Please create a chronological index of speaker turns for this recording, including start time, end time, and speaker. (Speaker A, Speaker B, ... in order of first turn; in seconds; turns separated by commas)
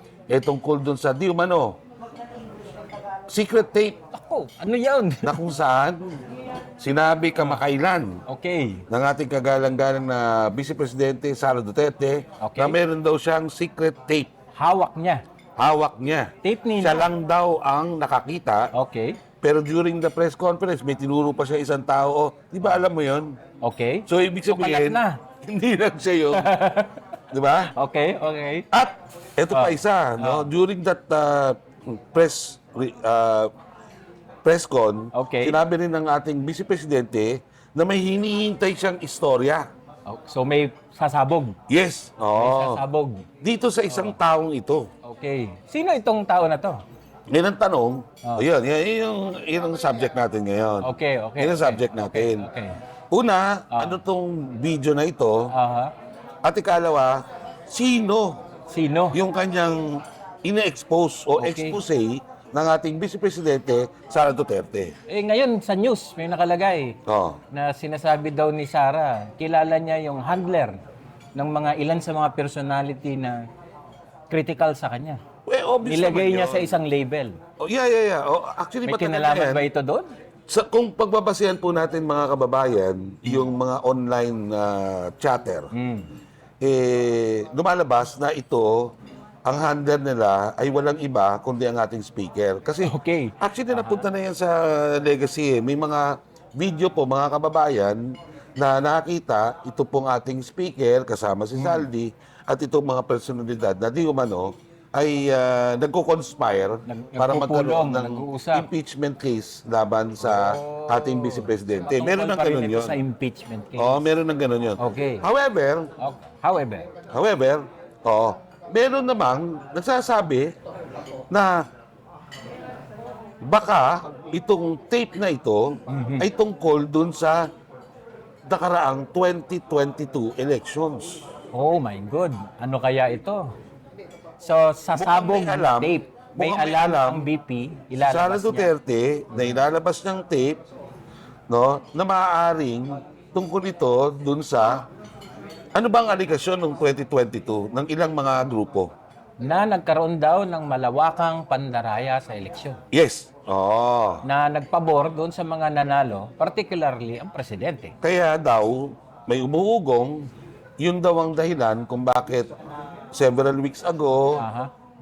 Speaker A: 0.3-1.8, Speaker A: 3.3-4.0, Speaker B: 4.1-5.5, Speaker A: 5.2-6.1, Speaker A: 6.8-8.2, Speaker B: 8.3-8.8, Speaker A: 8.9-14.3, Speaker B: 12.4-12.8, Speaker B: 14.6-15.2, Speaker A: 15.6-18.7, Speaker B: 16.4-17.1, Speaker B: 18.7-19.2, Speaker A: 19.4-23.4, Speaker B: 23.6-25.2, Speaker A: 24.1-26.5, Speaker B: 26.3-27.1, Speaker A: 27.3-27.7, Speaker B: 27.6-28.7, Speaker A: 28.7-33.5, Speaker B: 29.5-30.5, Speaker A: 34.5-39.7, Speaker B: 35.1-35.6, Speaker B: 40.1-41.6, Speaker A: 41.7-42.8, Speaker B: 42.4-43.3, Speaker A: 43.4-44.9, Speaker B: 43.9-44.2, Speaker B: 45.0-46.8, Speaker A: 47.3-52.5, Speaker B: 50.8-52.8, Speaker A: 53.1-55.5, Speaker B: 53.7-54.0, Speaker B: 55.5-55.9, Speaker A: 56.4-58.4, Speaker B: 58.7-59.2, Speaker A: 59.1-64.9, Speaker B: 61.4-61.8, Speaker B: 65.1-67.0, Speaker A: 67.1-67.4, Speaker B: 67.5-70.8, Speaker B: 71.3-73.4, Speaker B: 74.3-75.2, Speaker A: 75.5-76.8, Speaker B: 75.8-77.4, Speaker A: 77.6-79.7, Speaker B: 78.8-80.1, Speaker A: 80.5-85.7, Speaker B: 85.7-86.1, Speaker A: 86.6-88.9, Speaker A: 89.5-98.0, Speaker B: 92.8-94.1, Speaker A: 98.6-113.0, Speaker B: 101.6-101.9, Speaker B: 106.9-108.7, Speaker B: 110.2-114.0, Speaker A: 113.8-115.9, Speaker B: 114.8-115.2, Speaker B: 116.0-116.9, Speaker A: 117.1-120.5, Speaker A: 121.3-121.6, Speaker A: 123.4-127.4, Speaker B: 125.9-126.3, Speaker A: 128.5-131.2, Speaker B: 131.5-133.4, Speaker B: 134.4-138.7, Speaker A: 134.9-137.3, Speaker A: 137.9-140.6, Speaker B: 139.3-139.6, Speaker A: 141.5-144.8, Speaker A: 145.8-148.9, Speaker B: 149.4-152.8, Speaker A: 152.9-154.2, Speaker B: 154.2-157.9, Speaker A: 158.0-160.3, Speaker A: 160.8-162.5, Speaker A: 163.1-164.4, Speaker B: 164.3-164.7